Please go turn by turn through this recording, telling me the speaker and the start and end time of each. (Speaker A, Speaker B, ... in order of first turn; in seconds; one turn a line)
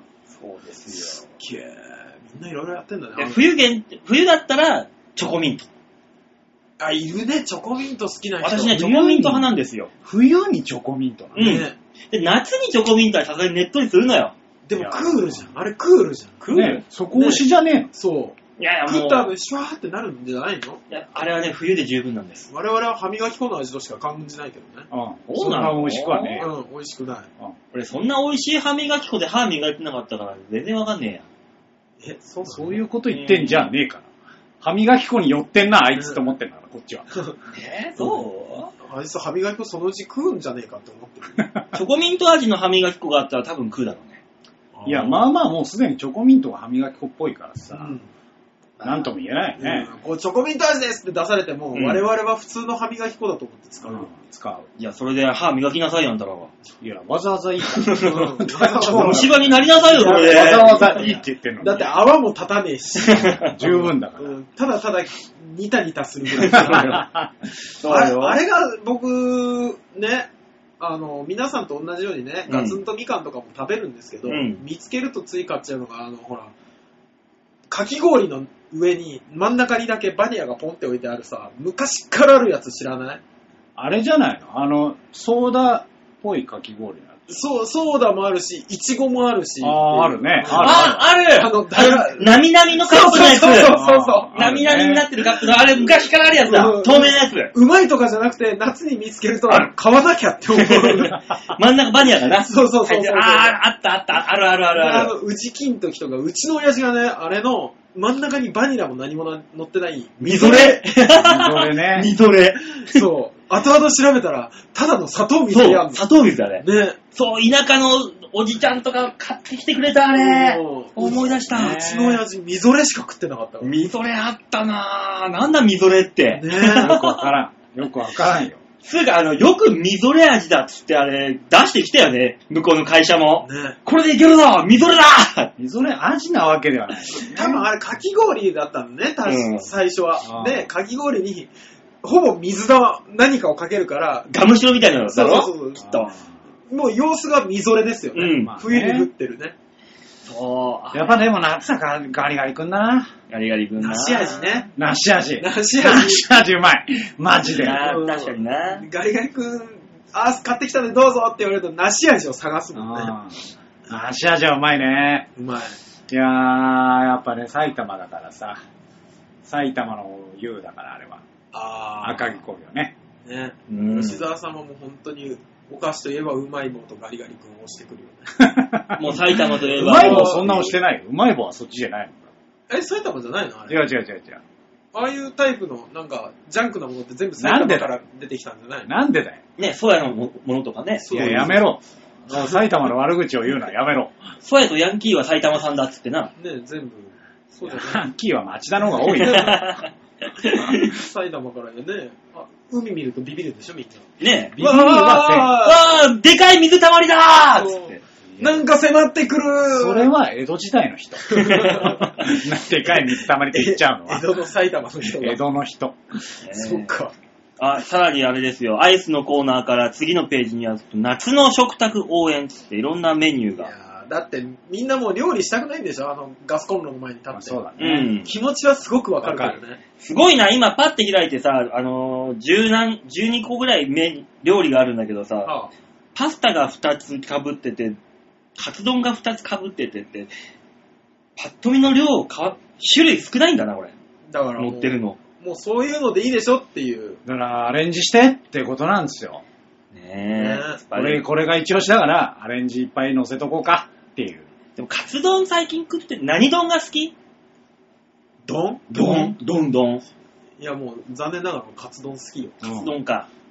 Speaker A: 0.3-1.2
Speaker B: 1.3-3.5
Speaker A: 3.2-5.7
Speaker B: 6.8-8.8
Speaker A: 8.4-9.9
Speaker C: 8.7-9.5
Speaker C: 10.0-11.6
Speaker B: 11.3-11.8
Speaker A: 11.3-14.3
Speaker B: 14.7-20.8
Speaker C: 14.7-15.4
Speaker C: 16.5-17.9
Speaker A: 18.6-19.3
Speaker A: 20.9-22.5
Speaker B: 22.5-24.9
Speaker C: 24.9-26.5
Speaker A: 25.3-26.5
Speaker B: 26.4-27.3
Speaker A: 27.7-31.2
Speaker B: 32.0-32.8
Speaker C: 32.4-34.1
Speaker A: 33.1-33.7
Speaker C: 34.6-37.1
Speaker A: 37.5-38.7
Speaker B: 38.8-41.5
Speaker A: 41.7-44.2
Speaker B: 44.7-45.2
Speaker C: 44.8-47.9
Speaker B: 47.7-48.0
Speaker B: 48.8-54.1
Speaker C: 48.8-49.9
Speaker A: 51.7-52.0
Speaker C: 53.8-54.7
Speaker A: 54.8-56.5
Speaker C: 56.8-61.9
Speaker A: 57.6-61.1
Speaker B: 58.0-67.0
Speaker A: 63.0-63.5
Speaker C: 63.4-64.4
Speaker A: 66.3-67.0
Speaker C: 66.7-67.3
Speaker A: 67.7-68.4
Speaker B: 67.8-76.5
Speaker A: 72.5-72.8
Speaker A: 74.3-74.6
Speaker B: 77.7-83.2
Speaker C: 83.8-87.3
Speaker B: 87.3-94.3
Speaker C: 89.6-91.1
Speaker A: 90.5-93.8
Speaker C: 93.4-95.1
Speaker A: 94.3-97.5
Speaker B: 95.3-101.2
Speaker A: 100.5-105.1
Speaker B: 102.4-103.6
Speaker B: 104.7-110.8
Speaker A: 110.2-113.0
Speaker C: 111.1-112.1
Speaker B: 112.9-116.0
Speaker A: 115.5-121.8
Speaker B: 116.6-117.0
Speaker B: 120.1-123.7
Speaker C: 121.5-122.2
Speaker A: 123.6-127.3
Speaker B: 126.3-126.9
Speaker C: 126.8-128.6
Speaker A: 128.8-135.5
Speaker B: 133.4-133.8
Speaker C: 135.6-137.6
Speaker B: 137.1-141.5
Speaker A: 139.2-139.7
Speaker C: 140.2-140.7
Speaker B: 142.0-144.3
Speaker A: 144.3-146.1
Speaker B: 145.1-146.1
Speaker C: 145.8-146.3
Speaker B: 146.7-149.5
Speaker A: 148.1-148.5
Speaker C: 148.3-149.1
Speaker A: 150.2-151.2
Speaker C: 150.9-153.1
Speaker A: 153.3-154.6
Speaker B: 153.8-154.7
Speaker C: 154.8-157.9
Speaker B: 155.4-156.3
Speaker A: 157.5-158.8
Speaker B: 157.6-163.1
Speaker C: 162.7-165.3
Speaker B: 165.3-165.8
Speaker C: 166.1-168.6
Speaker C: 169.4-171.2
Speaker B: 171.5-172.4
Speaker C: 172.0-172.9
Speaker B: 173.2-178.3
Speaker A: 173.7-174.2
Speaker C: 178.4-182.3
Speaker A: 179.0-180.7
Speaker B: 179.8-180.7
Speaker B: 182.7-183.8
Speaker C: 183.7-184.4
Speaker B: 184.9-188.9
Speaker C: 187.4-188.0
Speaker C: 188.8-189.4
Speaker A: 189.6-191.4
Speaker B: 191.0-191.7
Speaker C: 191.1-194.2
Speaker A: 194.4-196.3
Speaker B: 196.4-198.0
Speaker C: 197.6-199.7
Speaker B: 199.0-199.6
Speaker A: 199.1-200.9
Speaker B: 200.6-204.0
Speaker A: 204.2-208.0
Speaker C: 204.6-205.5
Speaker B: 204.6-205.9
Speaker B: 207.5-210.1
Speaker C: 208.3-208.6
Speaker C: 209.7-214.2
Speaker B: 211.2-212.1
Speaker A: 211.5-211.9
Speaker B: 212.9-215.4
Speaker C: 215.2-216.3
Speaker A: 216.4-216.9
Speaker B: 216.5-217.1
Speaker A: 217.6-223.7
Speaker B: 223.6-229.8
Speaker C: 227.3-228.1
Speaker A: 227.8-228.3
Speaker C: 229.2-229.6
Speaker A: 230.0-235.5
Speaker B: 235.4-235.7
Speaker A: 236.1-238.0
Speaker A: 238.6-240.3
Speaker A: 241.4-243.9
Speaker B: 244.3-247.2
Speaker A: 244.6-245.2
Speaker C: 247.2-249.4
Speaker A: 249.9-251.2
Speaker B: 250.3-250.8
Speaker C: 250.9-254.5
Speaker A: 254.8-257.1
Speaker B: 258.4-259.3
Speaker A: 258.9-260.0
Speaker C: 259.1-259.3
Speaker B: 260.6-262.6
Speaker C: 262.6-262.9
Speaker A: 262.6-263.3